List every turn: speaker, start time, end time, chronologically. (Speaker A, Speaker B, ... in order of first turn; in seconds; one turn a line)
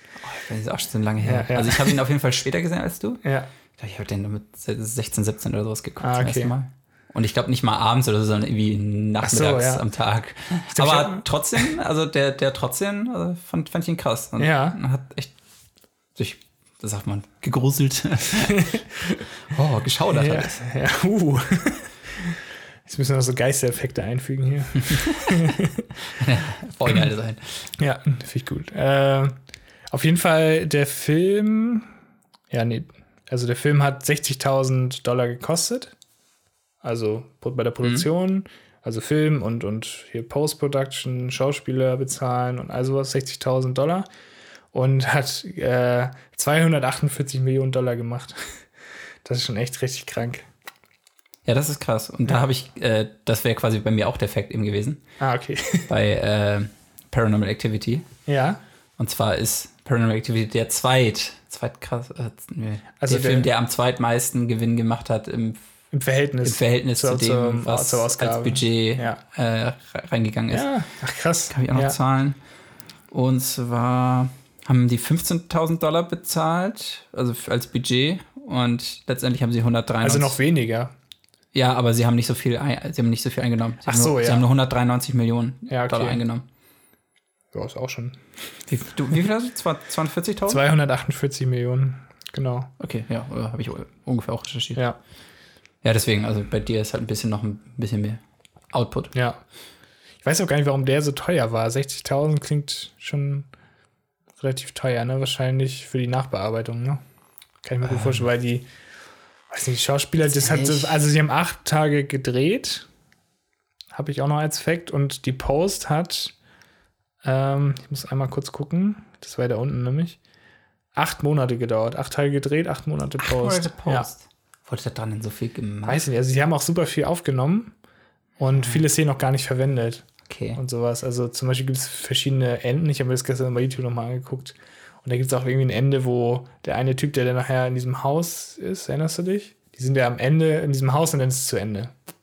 Speaker A: 0.2-3.2
Speaker B: 1.2-2.0
Speaker B: 3.2-3.5
Speaker A: 3.8-15.3
Speaker B: 6.0-6.5
Speaker B: 9.2-9.8
Speaker B: 10.7-11.7
Speaker B: 14.4-14.8
Speaker A: 16.2-18.8
Speaker B: 18.5-19.2
Speaker A: 19.5-20.6
Speaker B: 20.1-25.9
Speaker A: 24.8-27.7
Speaker B: 27.8-29.3
Speaker B: 29.9-31.9
Speaker B: 32.5-35.9
Speaker B: 36.8-44.1
Speaker B: 44.7-48.6
Speaker B: 49.2-50.5
Speaker A: 51.5-55.0
Speaker B: 55.2-55.9
Speaker A: 55.9-58.1
Speaker B: 58.3-58.6
Speaker A: 59.0-65.6
Speaker B: 63.0-63.5
Speaker B: 65.9-69.2
Speaker A: 66.4-70.7
Speaker B: 70.5-72.0
Speaker A: 71.5-72.4
Speaker A: 73.1-80.4
Speaker B: 80.0-80.9
Speaker A: 81.5-86.5
Speaker B: 83.8-84.5
Speaker B: 85.7-86.2
Speaker B: 87.5-88.2
Speaker A: 88.7-90.6
Speaker B: 90.5-92.7
Speaker A: 92.8-94.8
Speaker A: 95.8-98.2
Speaker A: 98.7-99.1
Speaker B: 99.1-99.4
Speaker B: 100.2-103.5
Speaker B: 104.4-107.0
Speaker B: 107.6-108.7
Speaker A: 107.8-108.2
Speaker B: 109.5-112.9
Speaker A: 110.3-111.0
Speaker B: 113.9-116.3
Speaker B: 117.2-120.2
Speaker B: 121.0-124.1
Speaker A: 123.2-126.0
Speaker B: 125.9-127.7
Speaker B: 128.4-141.9
Speaker A: 128.5-128.8
Speaker A: 130.3-130.6